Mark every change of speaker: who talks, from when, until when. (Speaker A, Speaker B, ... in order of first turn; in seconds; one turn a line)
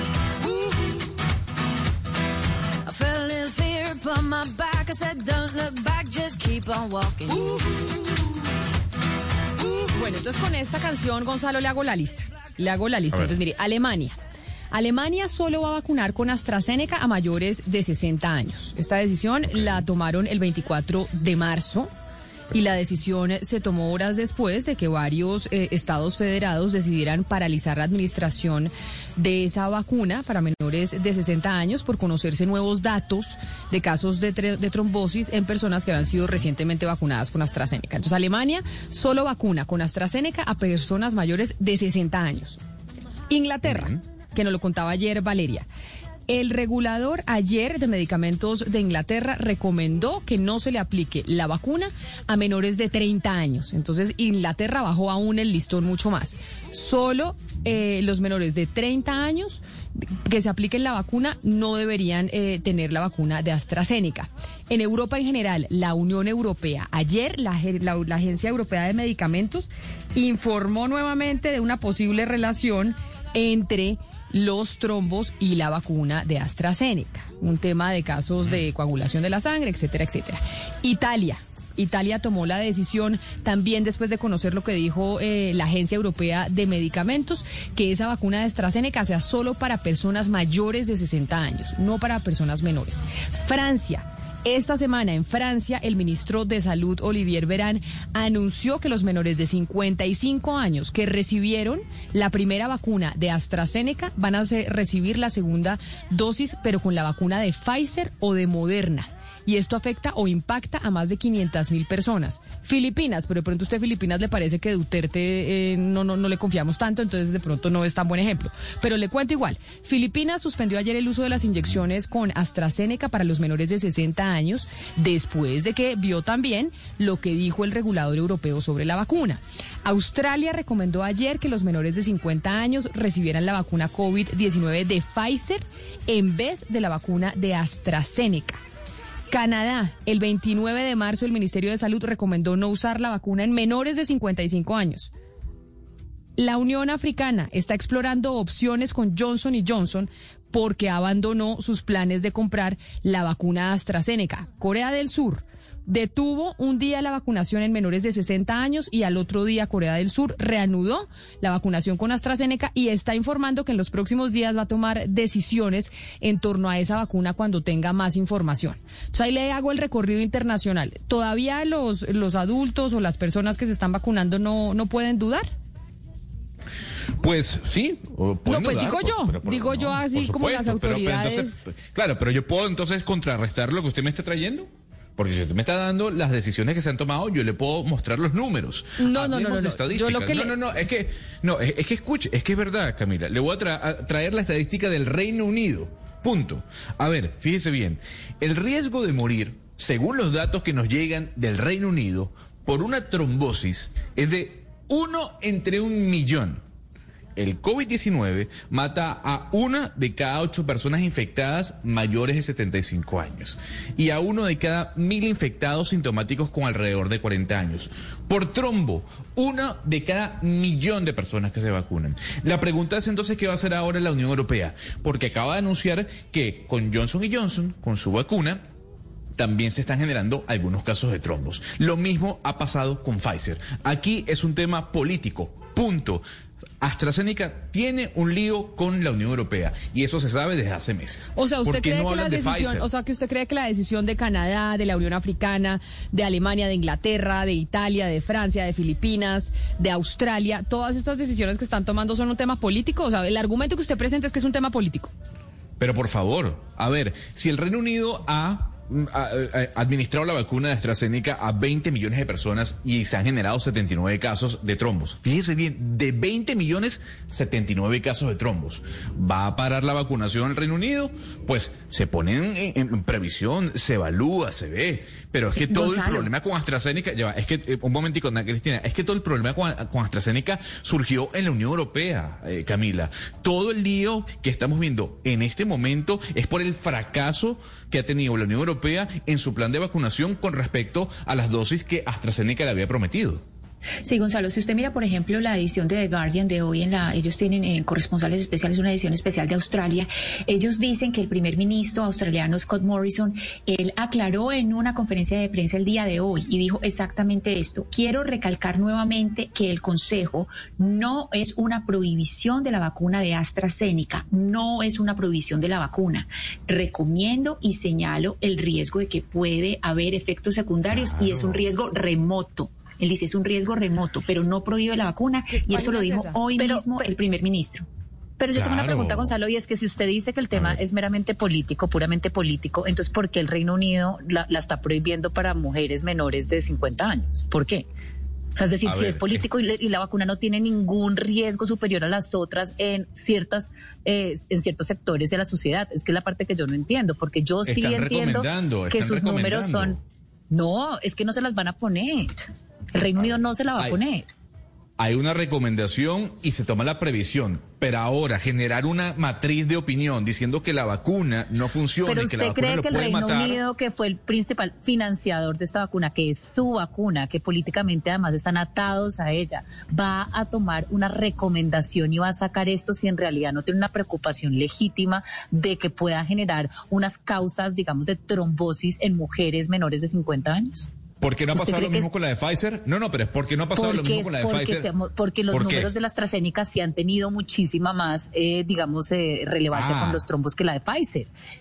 Speaker A: 2.8-7.8
Speaker B: 9.9-14.2
Speaker B: 14.7-21.9
Speaker C: 19.5-19.8
Speaker B: 22.5-42.6
Speaker B: 43.3-45.6
Speaker C: 43.6-44.0
Speaker B: 46.3-59.6
Speaker B: 60.2-138.6
Speaker B: 139.3-145.1
Speaker B: 146.4-175.5
Speaker C: 177.2-206.6
Speaker B: 178.4-181.6
Speaker B: 189.0-190.6
Speaker C: 207.3-228.6
Speaker C: 229.4-236.2
Speaker C: 236.8-242.9
Speaker B: 241.3-255.1
Speaker C: 255.8-293.4
Speaker D: 275.5-276.3
Speaker D: 294.0-327.9
Speaker C: 320.9-321.7
Speaker B: 325.5-326.4
Speaker E: 326.6-326.9
Speaker E: 328.4-337.9
Speaker C: 328.5-329.3
Speaker C: 330.5-330.8
Speaker E: 338.6-352.4
Speaker C: 338.8-339.4
Speaker C: 347.6-350.0
Speaker E: 352.9-354.3
Speaker C: 353.1-354.0
Speaker C: 355.0-363.6
Speaker E: 362.0-380.9
Speaker C: 381.2-384.9
Speaker E: 381.5-382.1
Speaker E: 383.7-391.3
Speaker C: 385.5-385.9
Speaker C: 389.7-390.2